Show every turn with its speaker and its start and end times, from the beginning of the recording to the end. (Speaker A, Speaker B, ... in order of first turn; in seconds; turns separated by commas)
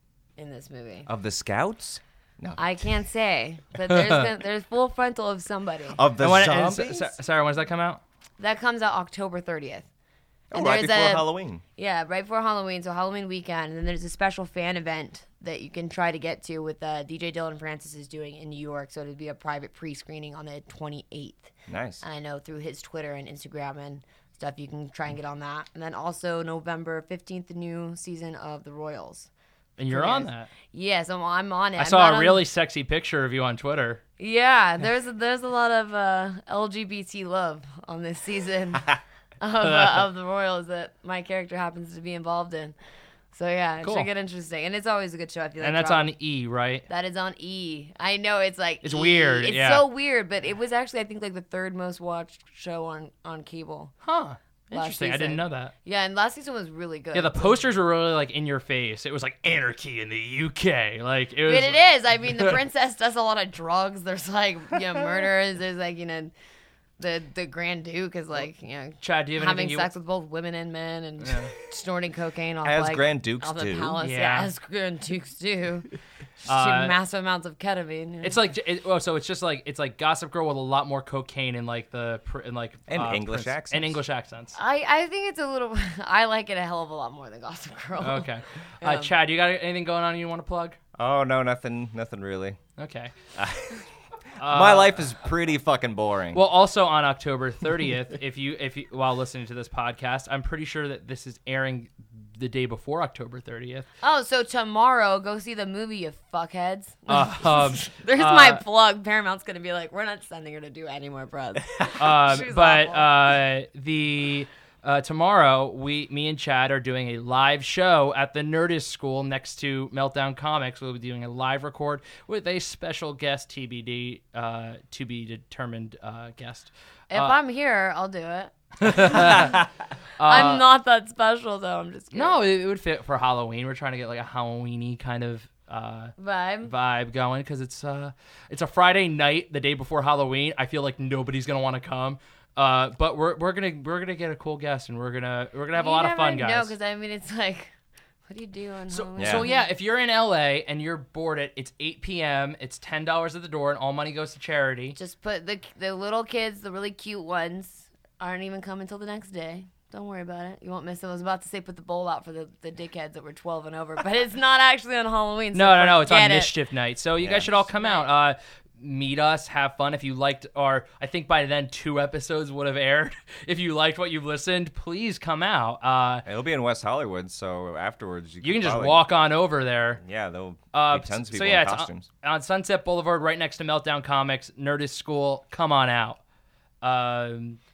Speaker A: 0.4-1.1, Speaker B: 1.1-2.6, Speaker A: 2.6-6.0, Speaker C: 3.9-4.2, Speaker B: 5.9-7.1, Speaker C: 6.2-8.0, Speaker A: 8.4-9.9, Speaker B: 10.5-11.6, Speaker A: 10.5-29.3, Speaker B: 21.7-22.0, Speaker C: 29.8-30.5, Speaker A: 29.9-32.4, Speaker C: 31.8-34.0, Speaker A: 34.2-42.8, Speaker C: 39.6-40.0, Speaker A: 43.3-46.1, Speaker C: 43.8-44.1, Speaker C: 45.6-46.9, Speaker A: 46.9-53.9, Speaker C: 48.8-49.8, Speaker C: 54.0-55.7, Speaker A: 54.7-57.6, Speaker C: 57.1-61.8, Speaker A: 61.5-66.3, Speaker A: 67.0-75.9, Speaker C: 69.0-69.9, Speaker C: 71.2-71.5, Speaker B: 72.6-74.0, Speaker C: 74.0-74.5, Speaker A: 76.5-78.4, Speaker C: 76.5-77.0, Speaker C: 78.2-84.6, Speaker B: 82.9-84.0, Speaker A: 84.5-89.1, Speaker C: 88.0-90.8, Speaker B: 91.0-92.6, Speaker C: 92.8-93.1, Speaker B: 93.3-93.8, Speaker C: 94.4-95.1, Speaker B: 94.4-96.4, Speaker C: 96.3-103.8, Speaker A: 104.0-113.1, Speaker C: 107.1-108.6, Speaker C: 112.0-127.3, Speaker A: 127.1-129.6, Speaker C: 128.8-129.7, Speaker C: 130.2-130.6, Speaker A: 130.2-132.4, Speaker C: 132.1-146.7, Speaker A: 136.2-136.7, Speaker A: 145.7-147.7, Speaker A: 148.3-149.7, Speaker C: 148.9-154.9, Speaker B: 149.2-149.5, Speaker A: 154.9-166.5, Speaker C: 165.5-176.2, Speaker B: 167.2-167.5, Speaker A: 167.7-168.1, Speaker B: 176.2-179.0, Speaker C: 178.4-180.0, Speaker B: 180.0-182.1, Speaker C: 180.7-186.2, Speaker C: 186.8-187.6